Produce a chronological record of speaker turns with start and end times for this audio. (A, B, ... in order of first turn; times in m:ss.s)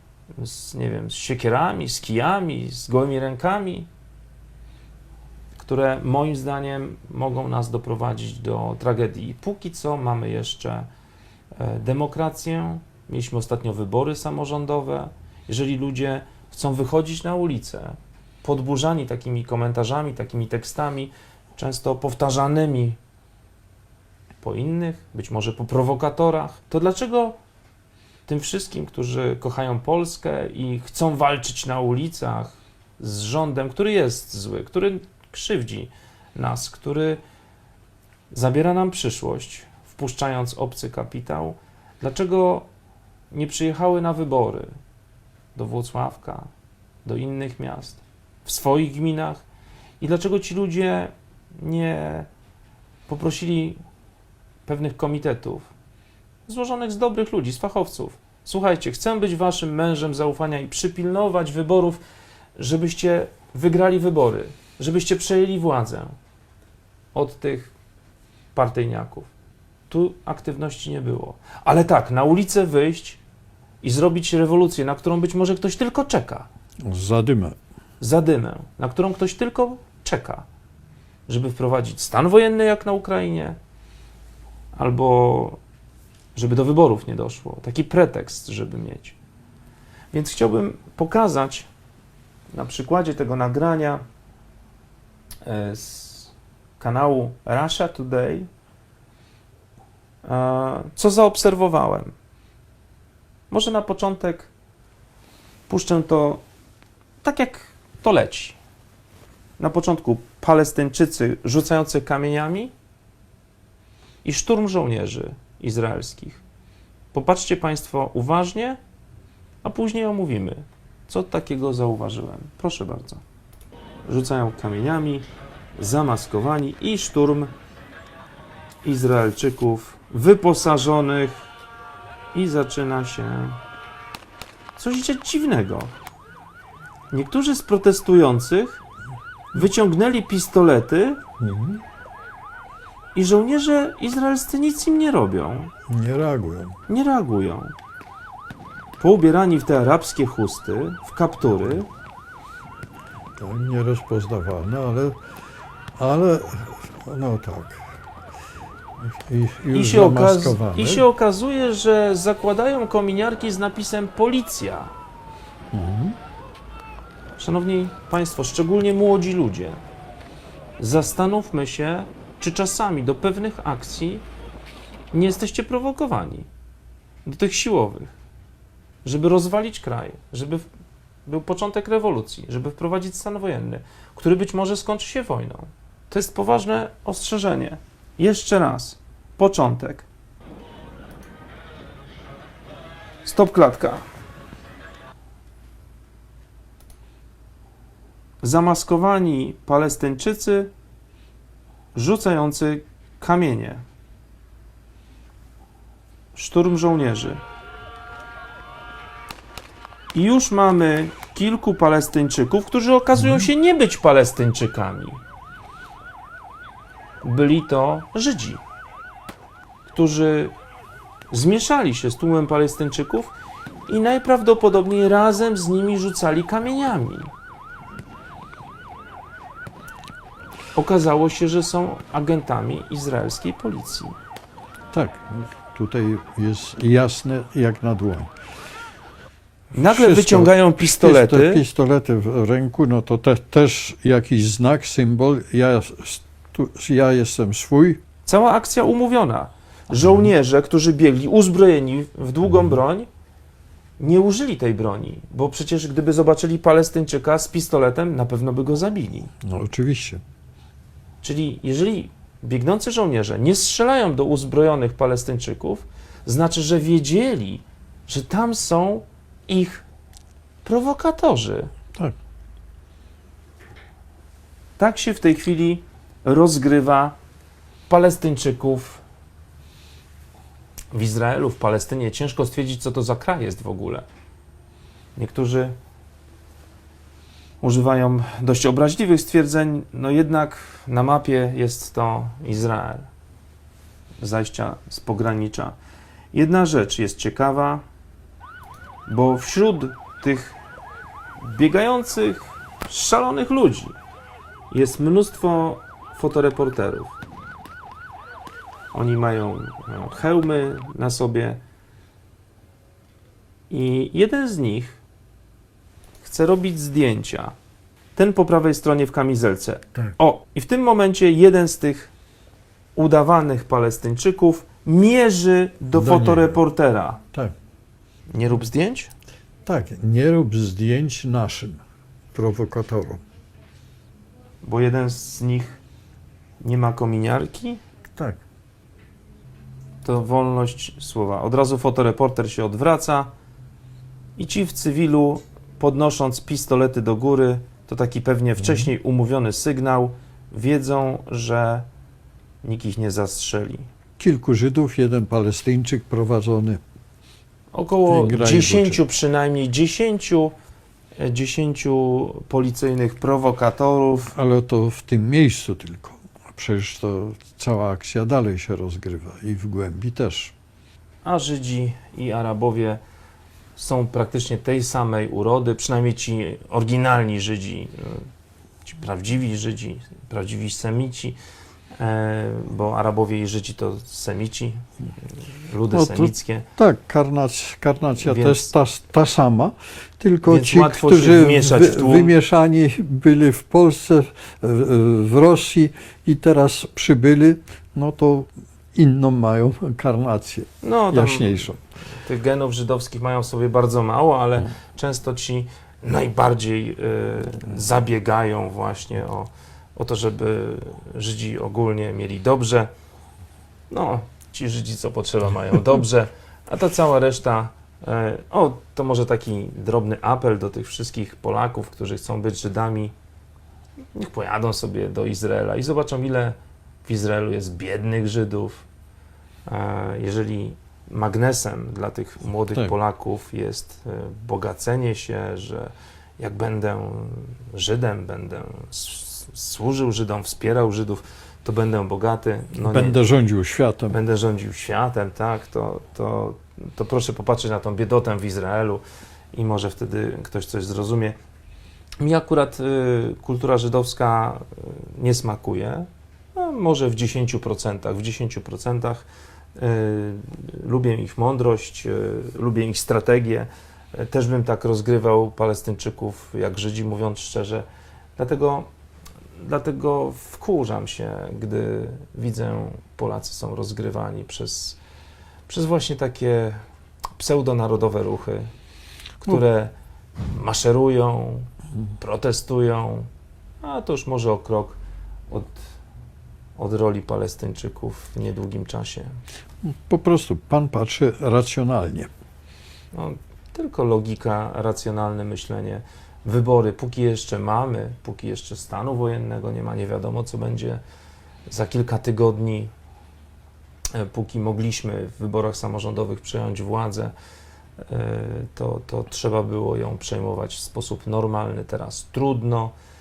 0:00.3-0:03.9 A
0:05.6-0:10.9 A
0:11.6-0:23.0 A
0:24.4-0:27.4 A
0:28.3-0:37.2 A
0:38.3-0:42.7 A
0:43.3-0:44.7 A
0:45.5-0:46.5 A
0:47.0-0:49.4 A
0:50.0-0:52.3 A
0:53.1-0:53.8 A
0:54.6-0:55.7 A
0:56.5-1:02.0 A
1:02.6-1:06.1 A
1:07.1-1:07.7 A
1:08.5-1:09.3 A
1:09.9-1:13.2 A
1:13.8-1:16.5 A
1:16.8-1:17.6 B
1:18.0-1:20.4 A
1:21.3-1:23.6 A
1:24.7-1:25.6 A
1:26.3-1:29.1 A
1:30.1-1:31.7 A
1:32.5-1:34.0 A
1:35.4-1:38.5 A
1:40.2-1:42.1 A
1:43.5-1:44.5 A
1:45.7-1:46.4 A
1:47.2-1:48.6 A
1:49.6-1:52.7 A
1:54.2-1:56.4 A
1:57.1-1:58.8 A
1:59.6-2:03.2 A
2:04.0-2:05.2 A
2:05.8-2:07.5 A
2:08.8-2:11.5 A
2:12.3-2:13.6 A
2:14.8-2:15.9 A
2:17.1-2:18.8 A
2:19.5-2:21.2 A
2:21.4-2:21.8 B
2:23.1-2:25.7 A
2:25.9-2:26.8 B
2:26.9-2:27.7 A
2:29.0-2:31.9 A
2:33.4-2:35.2 B
2:36.0-2:38.0 B
2:39.0-2:41.0 B
2:39.7-2:44.9 A
2:45.7-2:46.2 B
2:47.4-2:49.8 A
2:50.8-2:54.2 A
2:55.1-2:56.5 A
2:57.2-2:58.1 A
2:59.0-3:00.6 A
3:01.3-3:10.1 A
3:13.2-3:14.0 A
3:18.4-3:20.7 A
3:21.9-3:23.8 A
3:26.3-3:27.4 A
3:30.1-3:35.2 A
3:33.2-3:33.5 B
3:37.2-3:38.6 A
3:39.9-3:40.5 A
3:41.3-3:43.3 A
3:43.9-3:47.3 A
3:50.7-3:54.1 A
3:54.9-3:58.3 B
3:59.7-4:01.6 A
3:59.7-4:08.0 B
4:08.2-4:13.1 A
4:10.0-4:10.3 B
4:14.0-4:19.3 A
4:19.4-4:20.2 B
4:21.2-4:29.8 A
4:30.6-4:31.7 A
4:34.8-4:37.1 A
4:37.9-4:39.0 A
4:40.9-4:44.0 A
4:45.2-4:45.8 A
4:47.6-4:53.1 A
4:54.2-4:55.8 A
4:56.3-4:57.8 A
4:59.1-5:00.6 A
5:01.4-5:03.9 A
5:04.7-5:07.2 A
5:08.9-5:11.6 A
5:13.7-5:15.0 A
5:16.2-5:17.5 A
5:18.2-5:22.1 A
5:23.0-5:27.2 A
5:25.9-5:26.6 B
5:28.3-5:29.1 A
5:29.6-5:31.8 B
5:32.3-5:33.2 B
5:34.6-5:35.8 A
5:36.6-5:37.8 A
5:38.1-5:38.4 B
5:40.0-5:43.3 A
5:44.4-5:51.9 A
5:52.6-5:53.9 A
5:54.2-5:56.8 B
5:57.7-6:00.5 A
5:58.1-5:59.0 B
6:01.2-6:04.3 A
6:04.3-6:10.5 B
6:11.2-6:13.0 A
6:13.8-6:18.3 A
6:18.8-6:21.4 A
6:22.0-6:26.6 A
6:25.9-6:41.8 B
6:28.2-6:28.7 A
6:30.4-6:32.3 A
6:40.8-6:52.9 A
6:53.9-7:03.1 A
7:04.1-7:08.8 A
7:09.7-7:23.2 A
7:22.8-7:24.2 B
7:24.1-7:31.4 A
7:32.2-7:47.8 A
7:48.4-7:48.9 A
7:49.6-7:55.0 A
7:55.7-7:56.8 A
7:57.4-7:58.7 A
7:59.4-7:59.9 A
8:00.4-8:03.3 A
8:03.8-8:05.0 A
8:05.5-8:05.9 A
8:06.8-8:09.4 A
8:09.8-8:12.3 B
8:13.1-8:21.0 A
8:21.7-8:22.9 A
8:24.1-8:27.3 A
8:28.0-8:32.9 A